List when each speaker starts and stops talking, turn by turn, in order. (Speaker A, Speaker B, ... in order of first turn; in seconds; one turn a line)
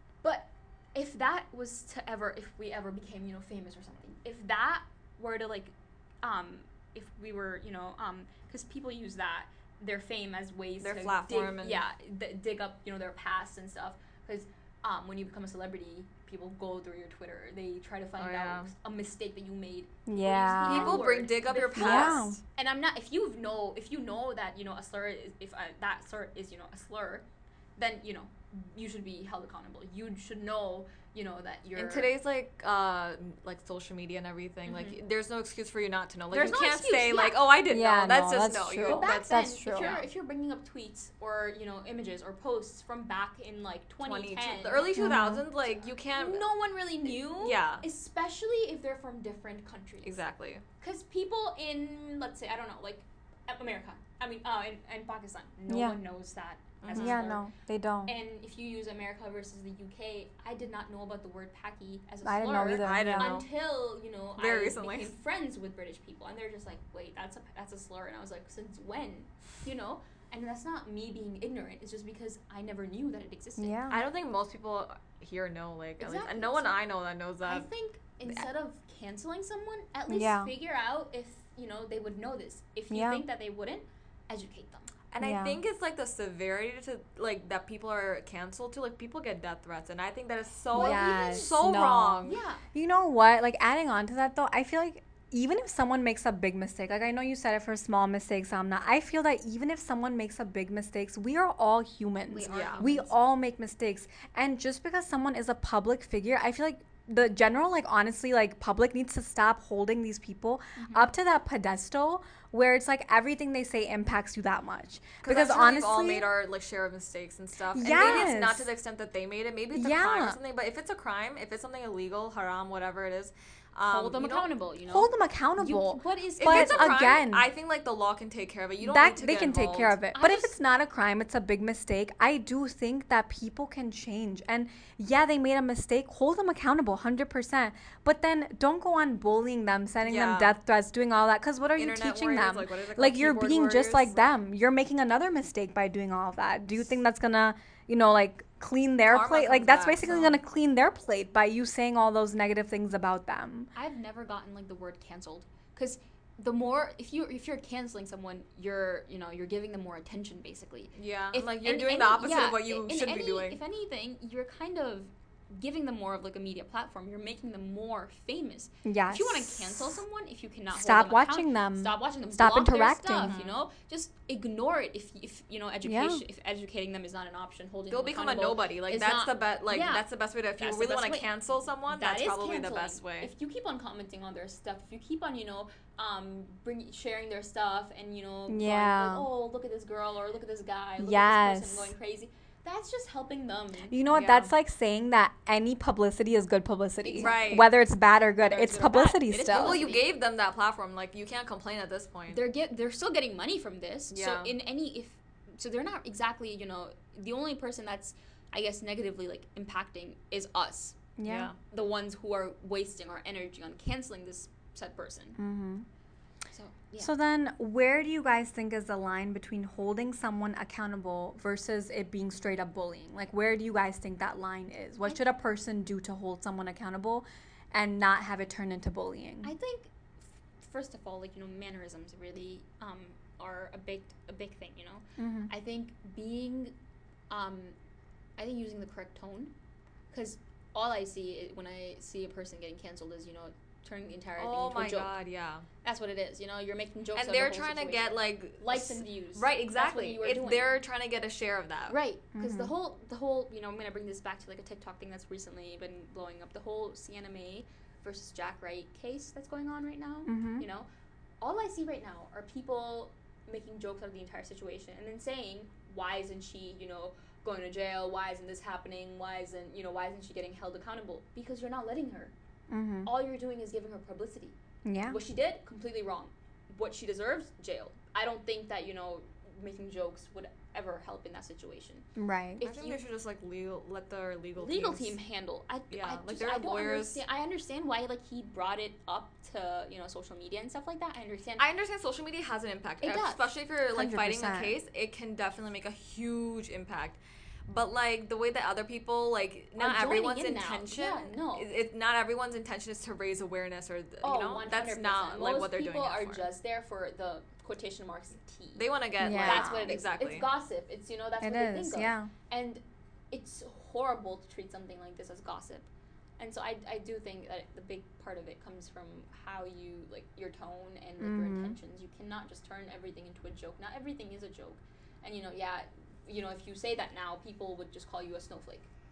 Speaker A: 0.2-27.2
Speaker B: 10.8-11.8
Speaker B: 18.2-18.7
Speaker C: 20.1-21.0
Speaker B: 20.6-22.4
Speaker C: 21.7-22.4
Speaker A: 27.8-32.1
Speaker B: 31.8-40.0
Speaker A: 34.6-35.0
Speaker A: 36.3-37.5
Speaker C: 37.7-40.0
Speaker A: 38.8-45.1
Speaker B: 44.0-46.5
Speaker C: 45.0-45.4
Speaker A: 45.6-50.2
Speaker B: 47.0-47.8
Speaker B: 50.0-50.6
Speaker A: 50.8-57.4
Speaker C: 55.7-56.0
Speaker B: 56.8-57.2
Speaker C: 56.9-58.1
Speaker A: 58.0-73.9
Speaker C: 62.2-63.4
Speaker B: 62.8-63.5
Speaker B: 64.4-65.1
Speaker C: 73.6-74.0
Speaker B: 73.9-77.7
Speaker A: 76.0-76.8
Speaker A: 77.4-84.9
Speaker C: 80.1-80.5
Speaker C: 82.9-83.2
Speaker B: 85.1-92.4
Speaker C: 85.2-85.6
Speaker A: 90.7-91.5
Speaker C: 90.7-116.2
Speaker A: 92.2-92.6
Speaker A: 102.3-103.1
Speaker B: 102.5-102.9
Speaker A: 110.8-111.1
Speaker B: 115.2-124.5
Speaker C: 117.7-118.7
Speaker C: 119.7-120.4
Speaker A: 123.9-127.0
Speaker C: 124.9-127.5
Speaker B: 126.4-129.9
Speaker C: 128.8-153.7
Speaker A: 130.1-130.5
Speaker B: 140.0-140.6
Speaker B: 141.8-144.2
Speaker B: 149.1-150.4
Speaker A: 153.7-180.1
Speaker B: 160.9-163.6
Speaker C: 168.8-170.0
Speaker C: 170.7-173.5
Speaker C: 175.8-176.2
Speaker B: 177.9-183.3
Speaker A: 180.6-181.3
Speaker A: 181.9-194.4
Speaker C: 188.5-189.3
Speaker C: 191.0-191.9
Speaker C: 193.9-199.8
Speaker B: 194.1-194.5
Speaker A: 197.0-197.6
Speaker B: 197.2-197.6
Speaker A: 198.4-200.1
Speaker B: 199.5-202.4
Speaker A: 202.3-211.0
Speaker B: 204.1-204.5
Speaker C: 211.2-211.5
Speaker B: 211.2-211.6
Speaker A: 211.7-215.4
Speaker C: 215.4-215.8
Speaker A: 216.5-217.1
Speaker C: 217.0-229.5
Speaker A: 229.4-236.7
Speaker C: 235.2-235.5
Speaker A: 237.3-237.7
Speaker A: 238.4-239.5
Speaker A: 240.1-245.2
Speaker B: 244.4-245.7
Speaker A: 245.8-250.8
Speaker B: 247.2-251.9
Speaker A: 251.9-260.9
Speaker C: 252.3-252.7
Speaker C: 260.2-260.6
Speaker A: 261.4-272.3
Speaker C: 272.7-273.1
Speaker A: 273.0-282.1
Speaker C: 274.8-275.2
Speaker C: 282.1-282.6
Speaker A: 282.6-283.0
Speaker B: 282.6-285.1
Speaker A: 284.6-291.6
Speaker B: 285.9-287.2
Speaker B: 291.6-306.5
Speaker A: 293.0-293.5
Speaker C: 293.9-294.8
Speaker A: 299.8-301.7
Speaker A: 304.2-328.9
Speaker B: 308.8-310.5
Speaker C: 309.2-309.9
Speaker C: 311.4-312.3
Speaker C: 321.2-321.8